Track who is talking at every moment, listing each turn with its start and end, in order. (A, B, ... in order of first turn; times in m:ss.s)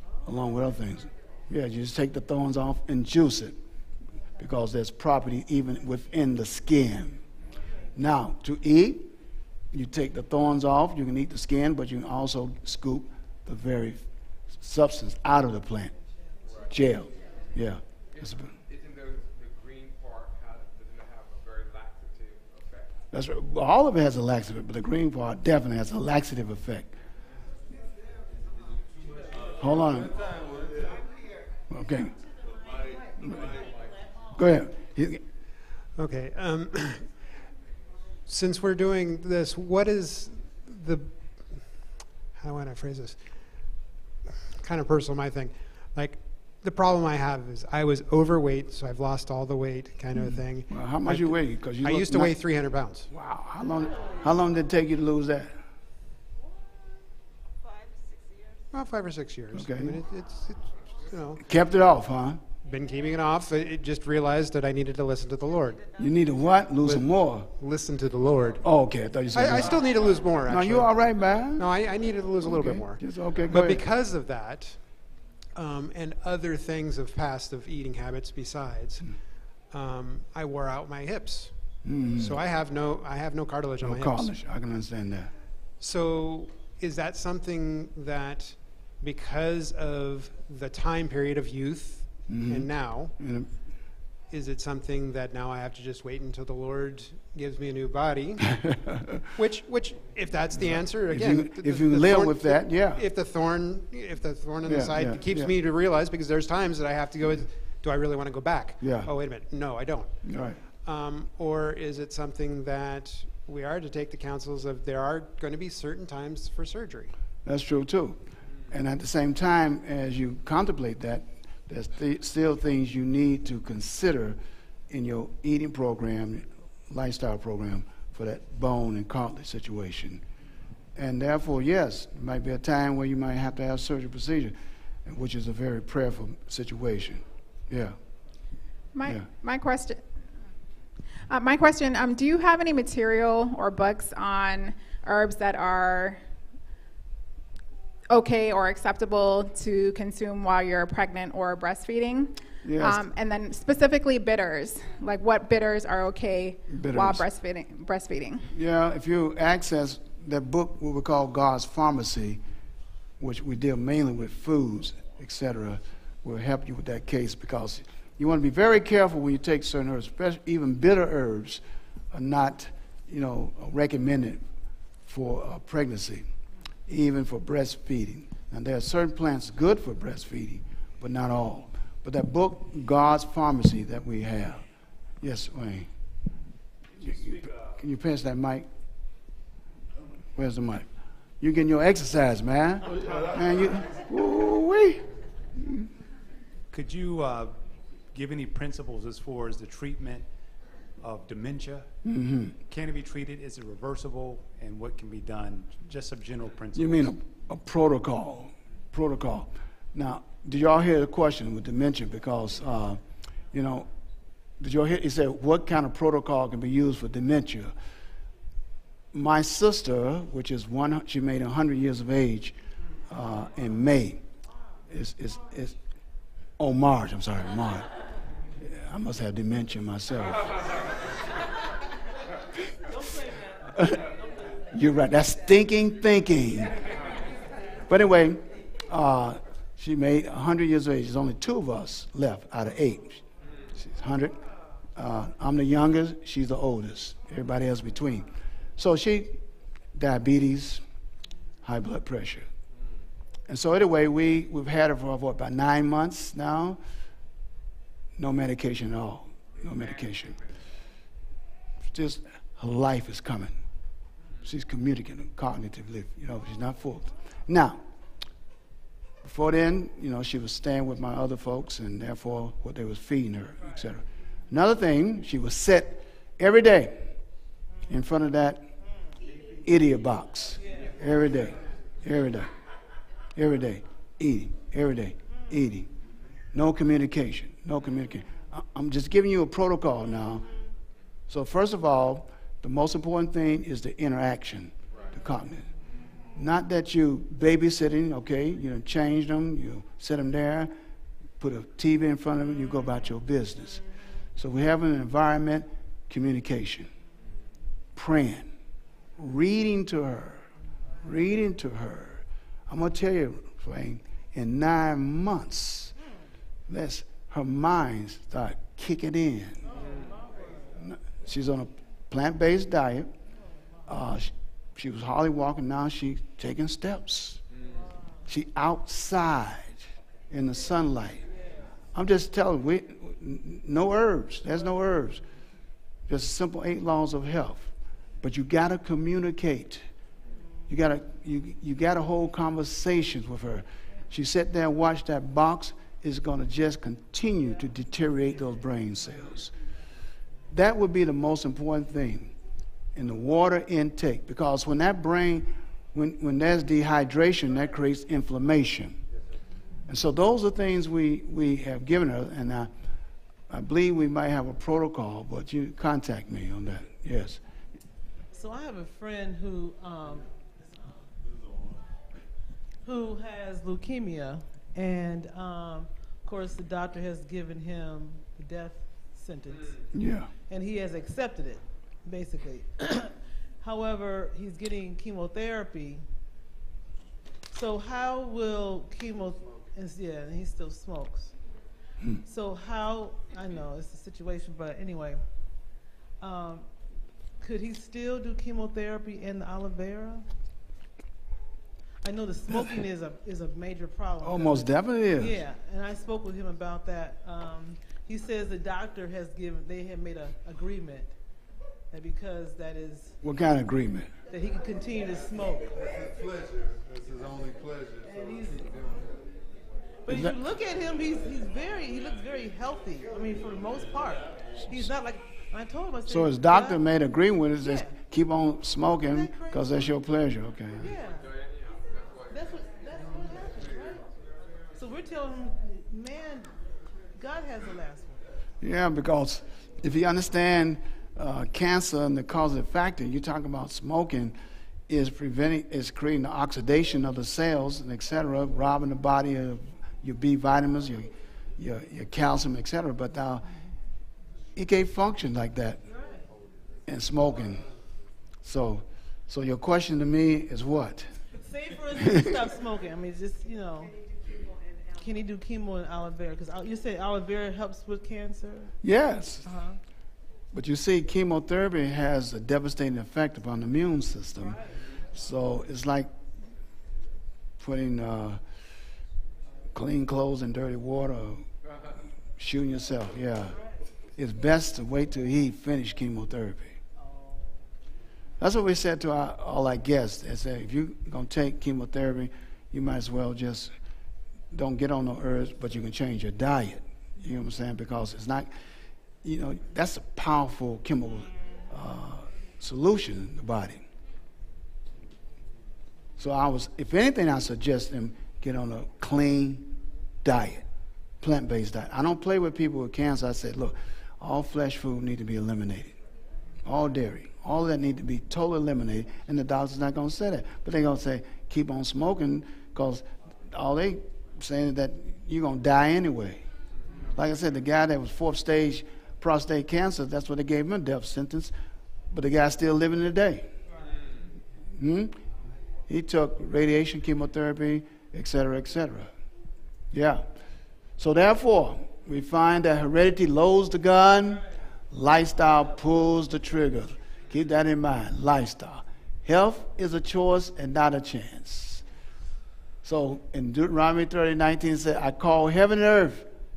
0:00.2-0:03.6 A
0:04.4-0:07.2 A
0:08.0-0:09.1 A
0:09.7-0:14.0 A
0:14.6-0:15.9 A
0:16.7-0:18.5 A
0:18.1-0:22.9 B
0:23.1-0:26.9 A
0:29.6-0:30.1 A
0:29.9-0:30.8 C
0:31.7-0:32.1 A
0:34.3-0:35.2 A
0:36.0-0:37.1 D
0:38.3-0:43.7 D
0:44.6-0:53.1 D
0:50.2-0:52.4 A
0:53.1-0:55.5 A
0:58.7-1:01.4 D
0:59.5-1:00.0 A
1:01.4-1:02.4 A
1:02.6-1:05.9 D
1:06.0-1:07.5 A
1:06.8-1:08.6 D
1:08.6-1:09.9 A
1:09.3-1:11.0 D
1:10.4-1:11.7 A
1:11.6-1:15.0 D
1:12.4-1:13.8 A
1:15.5-1:24.3 D
1:21.8-1:22.4 A
1:23.8-1:25.3 A
1:25.8-1:33.1 D
1:32.3-1:33.5 A
1:34.3-1:38.4 D
1:38.6-1:39.2 A
1:39.4-1:57.1 D
1:40.6-1:43.0 A
1:44.6-1:45.5 A
1:48.8-1:49.1 A
1:50.2-1:50.6 A
1:57.4-1:58.2 A
1:58.7-2:04.4 A
2:04.9-2:10.2 A
2:11.0-2:14.5 A
2:15.0-2:18.0 A
2:18.9-2:20.0 E
2:21.3-2:26.2 E
2:28.1-2:38.5 E
2:32.6-2:33.0 A
2:36.7-2:37.2 A
2:38.5-2:42.4 A
2:43.2-2:51.6 A
2:52.1-2:54.4 A
2:55.0-2:56.2 A
2:56.9-3:04.6 A
3:05.2-3:05.9 A
3:07.0-3:08.7 A
3:10.4-3:10.8 A
3:11.4-3:15.0 A
3:15.6-3:15.9 A
3:16.7-3:17.6 F
3:18.1-3:20.3 F
3:21.0-3:21.9 F
3:22.0-3:22.5 A
3:22.7-3:27.1 F
3:26.7-3:33.0 A
3:33.5-3:33.9 A
3:34.6-3:37.7 A
3:39.1-3:42.6 A
3:43.1-3:44.2 A
3:44.9-3:45.7 A
3:46.6-3:47.9 A
3:48.7-3:50.5 A
3:53.8-3:54.0 A
3:54.7-3:56.8 A
3:57.9-4:03.2 A
4:03.8-4:04.4 A
4:05.0-4:09.4 A
4:09.9-4:10.8 A
4:11.6-4:12.4 A
4:13.5-4:16.8 A
4:18.2-4:20.3 A
4:21.9-4:23.5 A
4:24.4-4:27.8 A
4:29.2-4:37.0 A
4:37.9-4:38.6 A
4:39.6-4:42.5 A
4:40.6-4:40.9 G
4:43.4-4:45.9 A
4:46.5-4:50.5 A
4:51.3-4:55.6 A
4:56.4-5:00.7 A
5:01.4-5:03.8 A
5:04.4-5:06.9 A
5:08.0-5:08.5 A
5:09.2-5:10.4 A
5:11.0-5:15.9 A
5:16.7-5:19.6 A
5:19.8-5:20.7 G
5:20.8-5:23.1 A
5:23.9-5:27.4 A
5:28.3-5:29.8 A
5:30.3-5:31.2 A
5:31.9-5:35.2 A
5:36.1-5:37.7 A
5:38.2-5:39.8 A
5:40.7-5:49.5 A
5:50.5-5:52.3 A
5:52.9-5:59.0 A
5:59.9-6:02.7 A
6:03.5-6:07.4 A
6:08.3-6:11.1 G
6:12.8-6:19.8 G
6:19.9-6:20.3 A
6:20.5-6:26.0 G
6:27.5-6:31.3 G
6:32.2-6:35.2 G
6:36.2-6:36.7 G
6:37.4-6:40.2 G
6:42.0-6:51.1 G
6:44.2-6:45.4 A
6:51.9-6:53.1 G
6:53.2-6:54.1 A
6:54.3-6:55.9 G
6:56.0-6:58.2 C
6:58.0-6:58.9 G
7:00.0-7:06.8 G
7:06.1-7:10.8 A
7:07.6-7:08.0 G
7:09.1-7:09.7 G
7:10.8-7:11.2 G
7:11.1-7:12.5 B
7:12.3-7:14.1 G
7:14.7-7:16.5 G
7:17.1-7:18.3 G
7:18.6-7:24.3 A
7:24.9-7:33.4 A
7:34.6-7:35.8 A
7:35.9-7:36.2 G
7:36.9-7:37.6 A
7:38.4-7:41.1 A
7:41.4-7:44.0 G
7:44.9-7:48.7 G
7:48.8-7:49.4 A
7:49.4-7:49.8 G
7:50.5-7:54.6 A
7:55.1-7:56.1 A
7:57.6-7:58.4 A
7:59.7-8:01.4 A
8:02.4-8:03.5 A
8:03.5-8:03.8 G
8:04.2-8:06.8 A
8:07.0-8:07.6 G
8:08.4-8:13.7 A
8:14.5-8:18.5 A
8:19.2-8:23.8 A
8:26.2-8:29.7 A
8:30.2-8:30.6 A
8:31.2-8:36.0 A
8:36.6-8:46.4 A
8:47.2-8:51.5 A
8:52.1-8:53.5 A
8:54.8-8:55.2 A
8:55.9-8:59.1 A
8:59.9-9:00.2 A
9:01.0-9:11.8 A
9:12.8-9:16.3 A